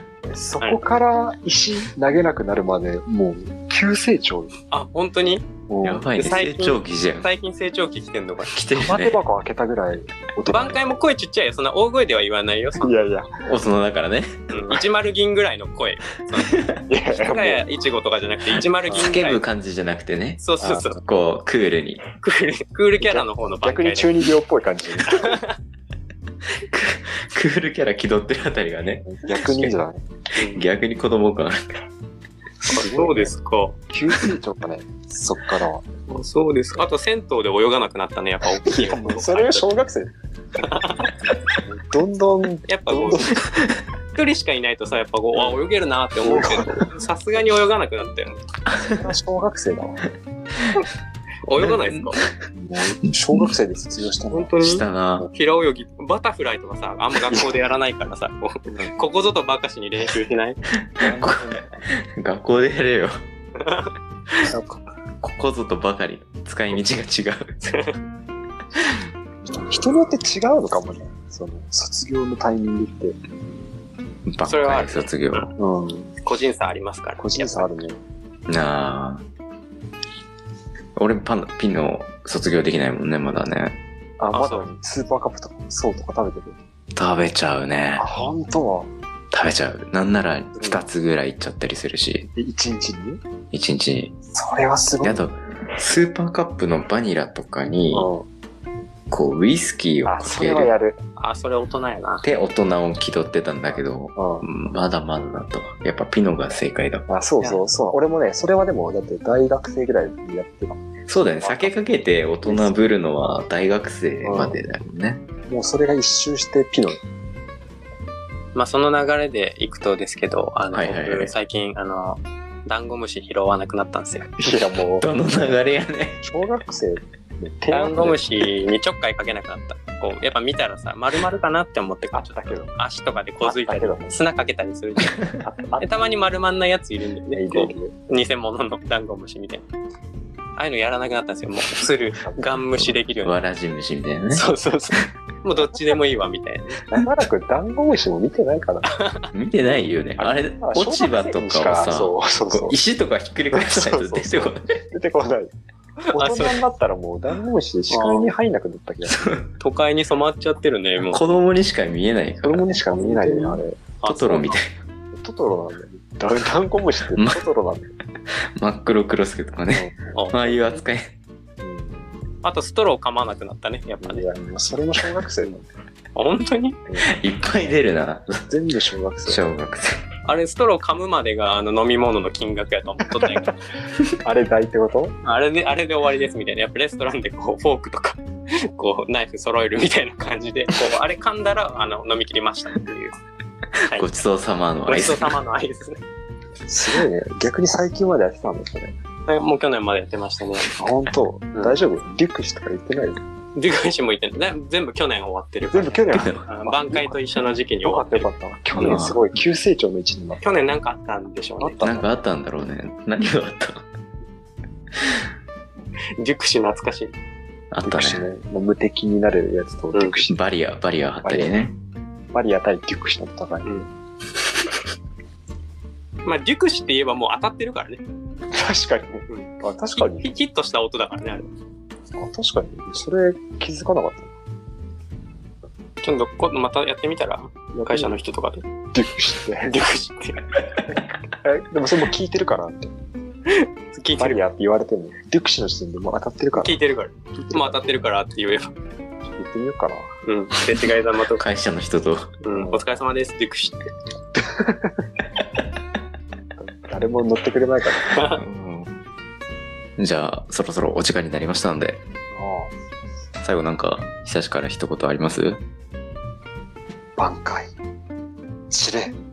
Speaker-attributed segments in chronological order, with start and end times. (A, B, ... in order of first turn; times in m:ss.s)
0:00.2-0:04.5 A
0:04.7-0:05.4 B
0:05.7-0:06.1 A
0:05.8-0:07.3 C
0:06.1-0:08.5 B
0:08.5-0:09.2 C
0:08.8-0:10.9 A
0:10.4-0:12.9 B
0:12.8-0:13.3 A
0:13.4-0:14.6 C
0:14.5-0:19.4 B
0:16.9-0:17.6 A
0:18.9-0:20.4 C
0:20.4-0:21.0 B
0:21.0-0:22.0 C
0:22.2-0:24.2 B
0:23.0-0:25.1 A
0:25.1-0:25.5 B
0:26.6-0:29.8 C
0:29.1-0:30.0 A
0:30.4-0:30.6 B
0:30.4-0:31.6 C
0:32.7-0:33.8 B
0:32.8-0:33.3 A
0:33.9-0:35.8 A
0:36.1-0:39.7 B
0:38.6-0:40.1 A
0:40.6-0:41.2 B
0:41.9-0:43.4 A
0:42.6-0:43.4 B
0:44.1-0:48.4 B
0:46.2-0:46.6 A
0:49.0-0:50.0 A
0:51.4-0:52.2 B
0:51.6-0:52.3 C
0:52.6-0:54.6 A
0:54.3-1:00.6 B
0:54.6-0:55.3 C
1:01.0-1:03.1 C
1:01.0-1:01.8 A
1:03.6-1:03.9 B
1:04.5-1:04.8 A
1:05.2-1:07.5 C
1:07.6-1:08.0 B
1:09.4-1:13.2 A
1:14.3-1:15.5 C
1:14.4-1:15.5 B
1:15.6-1:16.1 A
1:16.2-1:17.7 B
1:17.2-1:18.0 A
1:18.5-1:19.2 C
1:21.0-1:23.8 C
1:24.2-1:26.6 A
1:24.3-1:24.6 B
1:26.9-1:28.0 C
1:28.0-1:28.9 A
1:29.3-1:32.3 C
1:30.5-1:30.8 A
1:32.4-1:33.2 A
1:33.5-1:34.1 C
1:34.3-1:35.2 A
1:35.0-1:38.1 C
1:37.9-1:38.2 A
1:39.1-1:40.7 C
1:40.0-1:41.0 A
1:41.2-1:42.2 B
1:42.2-1:47.0 C
1:44.1-1:44.4 A
1:47.1-1:50.8 A
1:51.1-1:55.2 C
1:51.4-1:51.7 B
1:52.4-1:52.9 A
1:54.2-1:54.6 A
1:55.5-1:57.0 A
1:58.5-2:04.3 B
2:00.7-2:01.3 C
2:04.5-2:05.0 A
2:05.0-2:06.2 C
2:06.2-2:08.2 A
2:07.7-2:15.2 B
2:12.1-2:12.7 A
2:13.4-2:14.2 A
2:15.4-2:15.9 A
2:15.8-2:19.6 B
2:17.3-2:18.0 A
2:20.6-2:23.4 B
2:22.7-2:24.5 C
2:24.3-2:26.8 B
2:27.0-2:28.9 A
2:28.8-2:29.3 B
2:29.3-2:34.8 C
2:30.2-2:32.8 A
2:33.5-2:34.2 A
2:34.9-2:35.5 A
2:36.1-2:36.6 B
2:36.1-2:39.2 A
2:37.9-2:38.3 B
2:39.0-2:39.5 C
2:39.6-2:41.2 B
2:41.0-2:42.6 C
2:42.4-2:43.8 A
2:43.0-2:44.6 B
2:44.0-2:44.8 C
2:45.2-2:47.9 A
2:47.1-2:47.4 C
2:48.6-2:51.2 C
2:50.1-2:50.6 B
2:51.6-2:52.1 A
2:52.4-2:54.2 B
2:54.0-2:55.6 A
2:56.1-2:56.8 B
2:57.0-2:58.4 C
2:58.5-2:59.4 A
2:59.2-2:59.9 C
3:00.2-3:03.6 B
3:04.2-3:05.1 A
3:05.2-3:08.2 B
3:08.8-3:13.1 B
3:13.9-3:15.4 C
3:14.9-3:16.0 B
3:16.7-3:18.9 A
3:19.3-3:20.7 B
3:20.8-3:23.2 A
3:23.5-3:29.0 B
3:25.6-3:27.2 A
3:26.1-3:26.5 C
3:27.8-3:30.5 A
3:28.8-3:29.2 C
3:30.4-3:31.8 B
3:31.6-3:32.1 A
3:31.8-3:33.8 C
3:36.2-3:37.1 B
3:37.7-3:38.3 C
3:37.9-3:40.3 A
3:39.9-3:40.2 B
3:40.3-3:41.8 C
3:41.2-3:41.5 A
3:42.3-3:43.8 A
3:46.2-3:48.0 B
3:48.5-3:50.3 A
3:49.3-3:51.5 B
3:52.1-3:54.3 A
3:56.0-3:58.6 B
3:57.7-3:58.2 A
3:58.9-3:59.7 A
3:59.7-4:00.6 B
4:01.5-4:02.9 A
4:03.5-4:04.4 B
4:04.2-4:06.8 A
4:06.5-4:08.7 B
4:07.4-4:08.0 A
4:09.3-4:10.1 A
4:10.2-4:11.4 B
4:11.4-4:12.3 C
4:12.4-4:13.9 B
4:12.5-4:12.8 A
4:14.6-4:14.9 A
4:16.6-4:18.2 A
4:18.1-4:18.4 B
4:18.3-4:19.0 C
4:20.0-4:22.0 C
4:22.3-4:22.7 A
4:23.4-4:25.6 C
4:27.2-4:27.7 A
4:28.7-4:29.1 A